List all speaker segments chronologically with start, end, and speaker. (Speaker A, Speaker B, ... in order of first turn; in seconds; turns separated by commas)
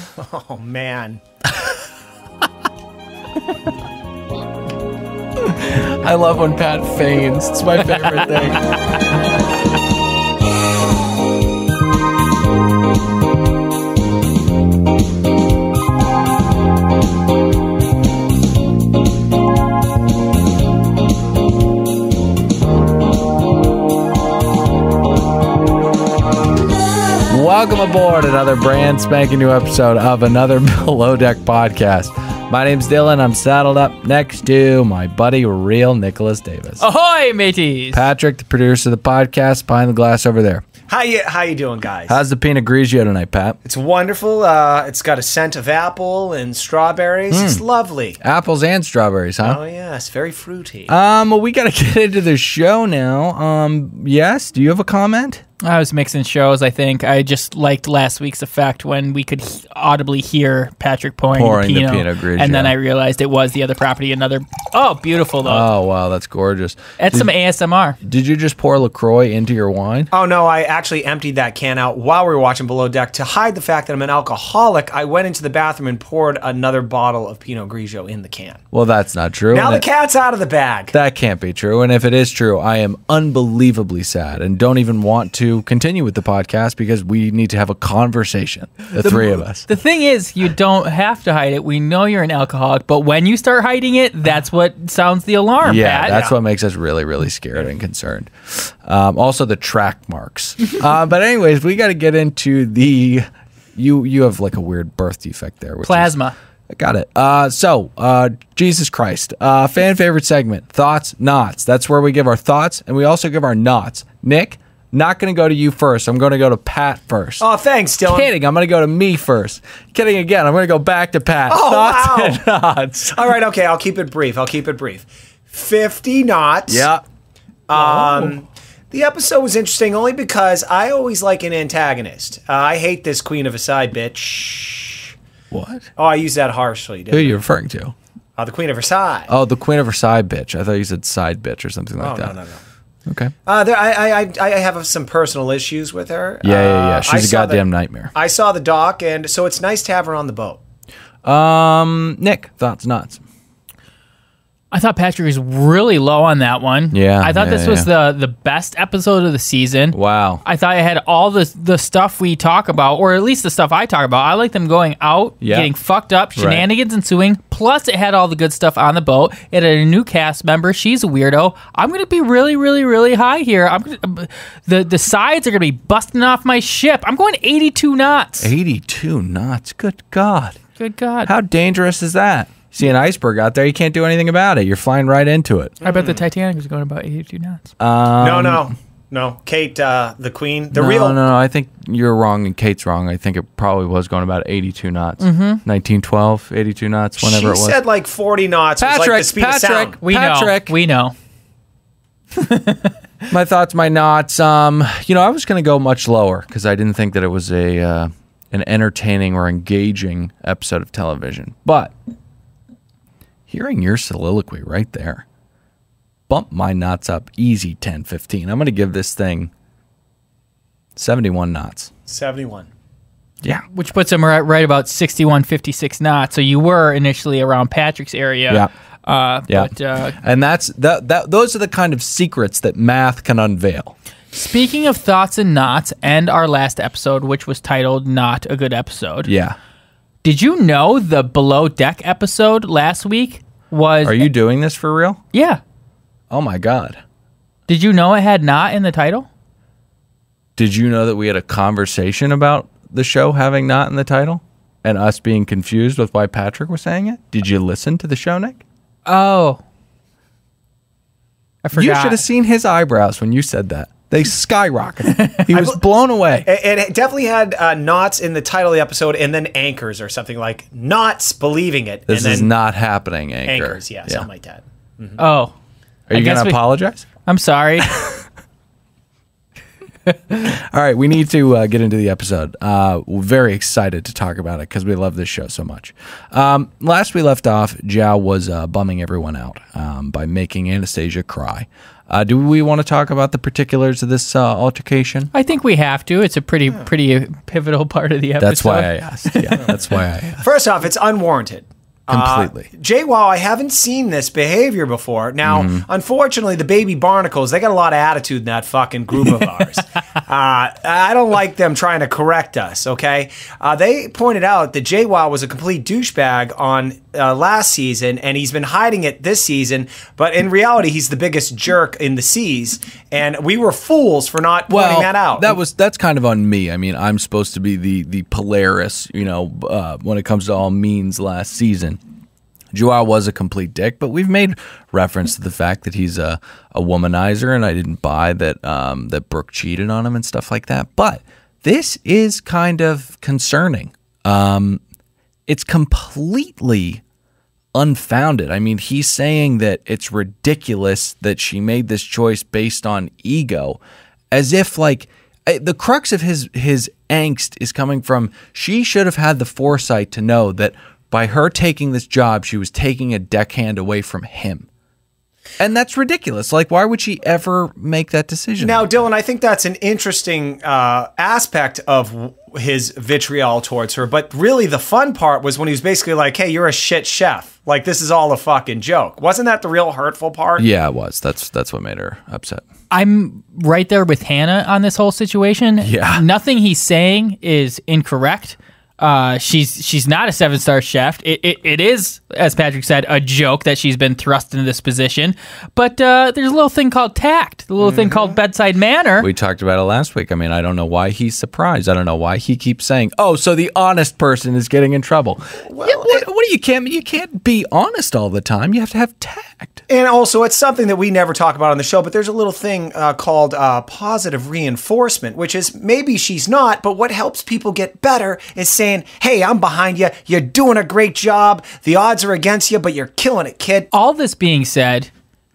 Speaker A: 0.2-1.2, Speaker B: 5.4-8.7, Speaker B: 27.3-36.8, Speaker C: 36.8-38.0, Speaker B: 37.9-40.6, Speaker A: 40.9-42.2, Speaker B: 42.1-43.6, Speaker A: 43.6-48.2, Speaker B: 47.3-47.6, Speaker B: 48.2-49.6, Speaker A: 49.4-50.9, Speaker B: 50.9-55.4, Speaker C: 55.6-65.7, Speaker B: 61.3-62.8, Speaker B: 65.5-67.3, Speaker C: 67.0-68.0, Speaker B: 68.0-70.1, Speaker A: 70.1-78.6, Speaker B: 78.7-79.8, Speaker A: 79.5-80.9, Speaker B: 80.9-89.7, Speaker C: 88.9-96.2, Speaker B: 95.6-106.1, Speaker A: 96.1-96.3, Speaker C: 105.8-106.3, Speaker B: 106.7-117.5, Speaker A: 117.4-118.3, Speaker B: 118.1-123.2, Speaker A: 121.5-122.4, Speaker A: 123.1-126.9, Speaker B: 126.7-127.0, Speaker A: 127.7-135.2, Speaker B: 127.7-128.3, Speaker B: 135.5-135.9, Speaker A: 136.0-137.4, Speaker B: 137.1-137.9, Speaker A: 138.4-139.3, Speaker B: 139.3-142.3, Speaker A: 142.0-142.6, Speaker B: 143.1-143.3, Speaker A: 143.5-150.6, Speaker B: 146.4-148.1, Speaker B: 151.2-153.2, Speaker C: 154.7-178.5, Speaker B: 156.9-157.9, Speaker B: 159.9-160.4, Speaker B: 165.4-165.7, Speaker B: 166.4-166.7, Speaker B: 178.4-180.6, Speaker C: 180.8-181.3, Speaker B: 181.3-185.8, Speaker A: 185.8-186.2, Speaker C: 185.8-187.7, Speaker B: 187.8-188.7, Speaker A: 188.2-191.2, Speaker B: 190.7-197.8, Speaker C: 195.2-195.6, Speaker A: 197.2-200.0, Speaker B: 198.8-200.7, Speaker C: 200.0-201.2, Speaker C: 202.4-202.9, Speaker B: 203.3-211.9, Speaker B: 213.5-215.2, Speaker B: 216.3-219.5, Speaker B: 221.0-221.9, Speaker A: 222.1-222.7, Speaker C: 223.7-230.2, Speaker B: 229.5-233.9, Speaker C: 234.3-239.3, Speaker B: 239.3-239.6, Speaker C: 240.2-244.3, Speaker B: 244.1-245.2, Speaker C: 245.3-245.6, Speaker B: 246.3-247.0, Speaker C: 247.7-249.3, Speaker B: 250.6-258.6, Speaker C: 259.1-259.6, Speaker C: 261.6-262.2, Speaker B: 261.8-266.5, Speaker C: 265.1-265.5, Speaker A: 266.5-272.5, Speaker B: 272.1-274.3, Speaker A: 273.5-275.2, Speaker C: 275.2-275.5, Speaker B: 276.1-277.1, Speaker C: 276.1-276.7, Speaker C: 277.2-277.9, Speaker B: 277.8-278.2, Speaker B: 280.3-295.3, Speaker C: 295.3-299.7, Speaker B: 298.4-300.4, Speaker A: 300.4-325.6, Speaker B: 302.1-302.7, Speaker B: 305.4-305.9, Speaker B: 324.7-332.0, Speaker B: 332.7-344.8, Speaker B: 345.5-347.0, Speaker B: 347.7-353.8, Speaker B: 354.3-364.7, Speaker B: 365.6-368.9, Speaker A: 368.6-380.7, Speaker B: 380.6-382.6, Speaker C: 382.9-399.3, Speaker B: 385.8-386.2, Speaker A: 397.8-398.4, Speaker B: 399.2-409.8, Speaker A: 405.7-406.2, Speaker A: 409.9-423.9, Speaker C: 423.9-425.1